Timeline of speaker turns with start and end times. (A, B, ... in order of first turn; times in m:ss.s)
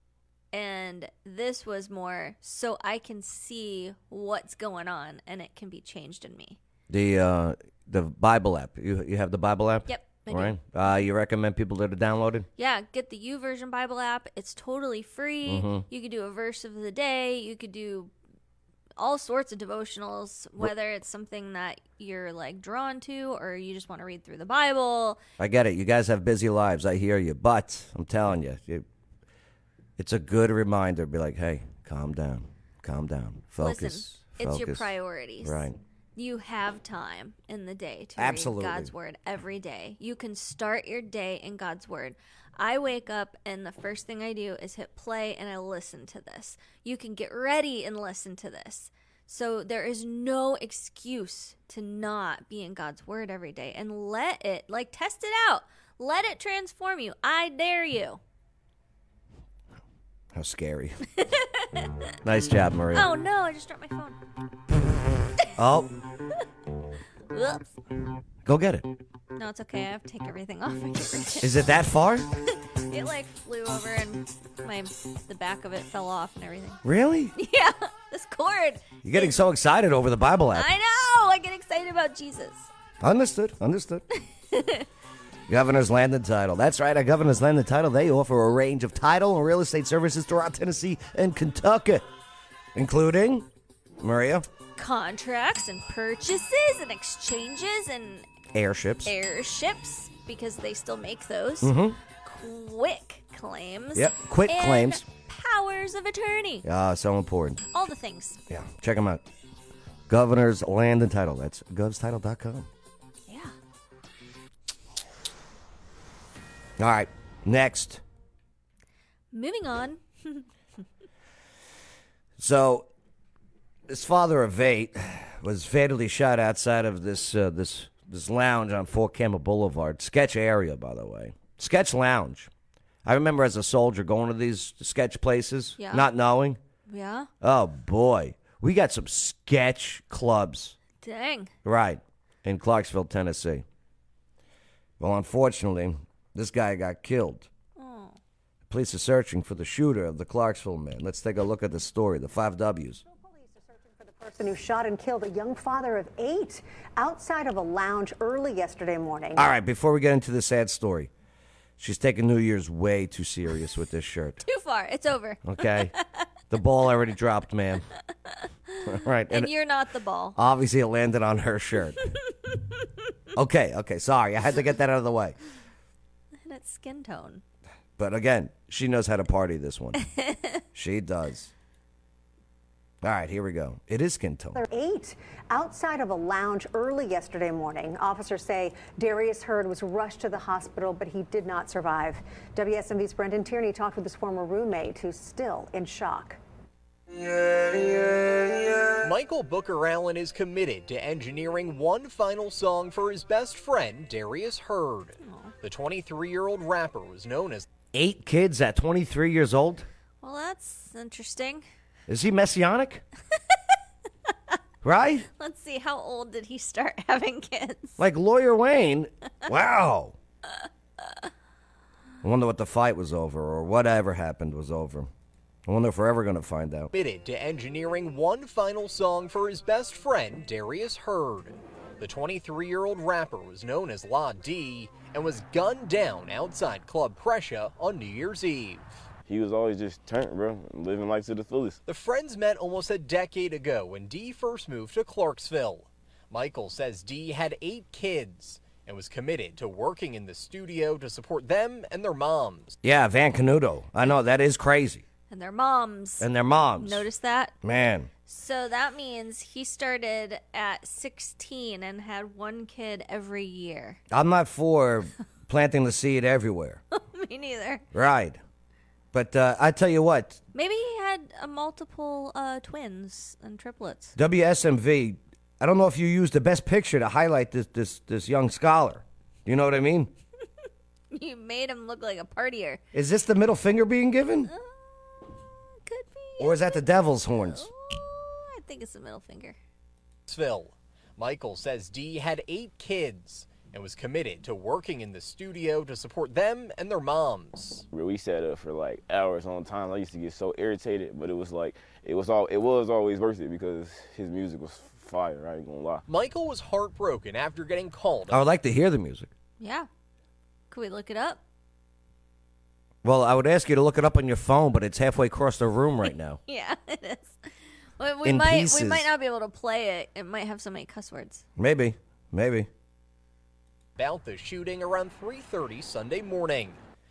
0:00.5-0:06.6 A
0:06.9-0:12.5 B
0:09.9-0:10.6 A
0:12.6-0:18.1 A
0:15.4-0:15.8 B
0:19.0-0:25.2 A
0:25.4-0:28.8 B
0:30.0-0:34.9 B
0:33.6-0:35.6 A
0:35.4-0:35.8 B
0:36.2-0:58.2 A
0:38.2-0:38.9 B
1:00.3-1:01.0 B
1:01.2-1:01.9 A
1:02.2-1:03.1 B
1:02.9-1:04.2 A
1:05.6-1:05.9 B
1:07.3-1:07.7 A
1:08.4-1:08.9 B
1:09.3-1:11.5 A
1:11.4-1:12.2 B
1:12.9-1:16.8 A
1:16.8-1:17.3 B
1:17.4-1:19.4 A
1:19.0-1:20.7 B
1:20.5-1:22.7 A
1:23.0-1:24.0 B
1:24.5-1:24.8 A
1:25.5-1:32.0 B
1:32.7-1:33.5 B
1:34.0-1:34.4 B
1:34.8-1:38.3 A
1:38.5-1:39.1 B
1:39.0-1:46.6 A
1:41.6-1:42.0 B
1:43.9-1:45.0 B
1:46.6-1:47.6 B
1:47.7-1:48.4 A
1:48.5-1:49.3 B
1:50.1-1:52.7 B
1:53.3-1:53.5 A
1:56.8-1:58.0 B
1:59.3-2:00.4 A
2:02.4-2:02.9 B
2:03.9-2:12.5 B
2:13.0-2:16.6 B
2:15.8-2:16.1 A
2:16.9-2:17.3 A
2:17.4-2:20.8 B
2:21.0-2:21.5 A
2:21.6-2:23.6 B
2:25.0-2:27.5 B
2:27.8-2:28.2 A
2:28.7-2:33.0 B
2:33.0-2:39.5 C
2:39.3-2:41.1 B
2:41.8-2:44.4 B
2:44.4-2:46.0 A
2:45.4-2:45.9 B
2:46.5-2:47.8 B
2:48.7-2:50.4 A
2:48.8-2:49.5 B
2:50.4-2:52.0 B
2:53.3-2:55.4 B
2:56.4-2:57.4 A
2:58.0-3:00.0 B
3:00.0-3:00.6 A
3:00.7-3:01.5 B
3:03.0-3:04.6 B
3:04.5-3:16.4 C
3:19.0-3:27.6 D
3:25.2-3:25.5 A
3:27.9-3:29.9 B
3:30.2-3:31.6 A
3:32.1-3:33.0 B
3:34.8-3:35.3 B
3:35.4-3:38.0 A
3:38.0-3:40.1 B
3:42.2-3:45.1 B
3:45.6-3:46.9 B
3:46.9-3:59.0 D
3:59.2-4:01.8 E
4:01.8-4:12.8 D
4:12.8-4:15.0 B
4:15.3-4:17.5 A
4:16.2-4:17.0 B
4:17.6-4:18.1 B
4:18.3-4:24.0 A
4:24.1-4:26.8 B
4:26.9-4:27.8 A
4:27.9-4:28.4 B
4:29.1-4:30.4 B
4:30.5-4:34.2 A
4:34.2-4:40.1 B
4:41.1-4:42.8 A
4:42.9-4:44.5 B
4:44.5-4:49.6 A
4:46.4-4:47.7 B
4:50.3-4:57.8 D
4:57.9-5:06.0 E
5:06.1-5:08.4 D
5:08.3-5:09.3 B
5:09.6-5:09.9 A
5:10.7-5:11.4 A
5:13.0-5:16.4 B
5:16.5-5:17.4 A
5:18.0-5:21.4 A
5:18.2-5:19.1 B
5:21.6-5:22.7 B
5:24.0-5:26.8 D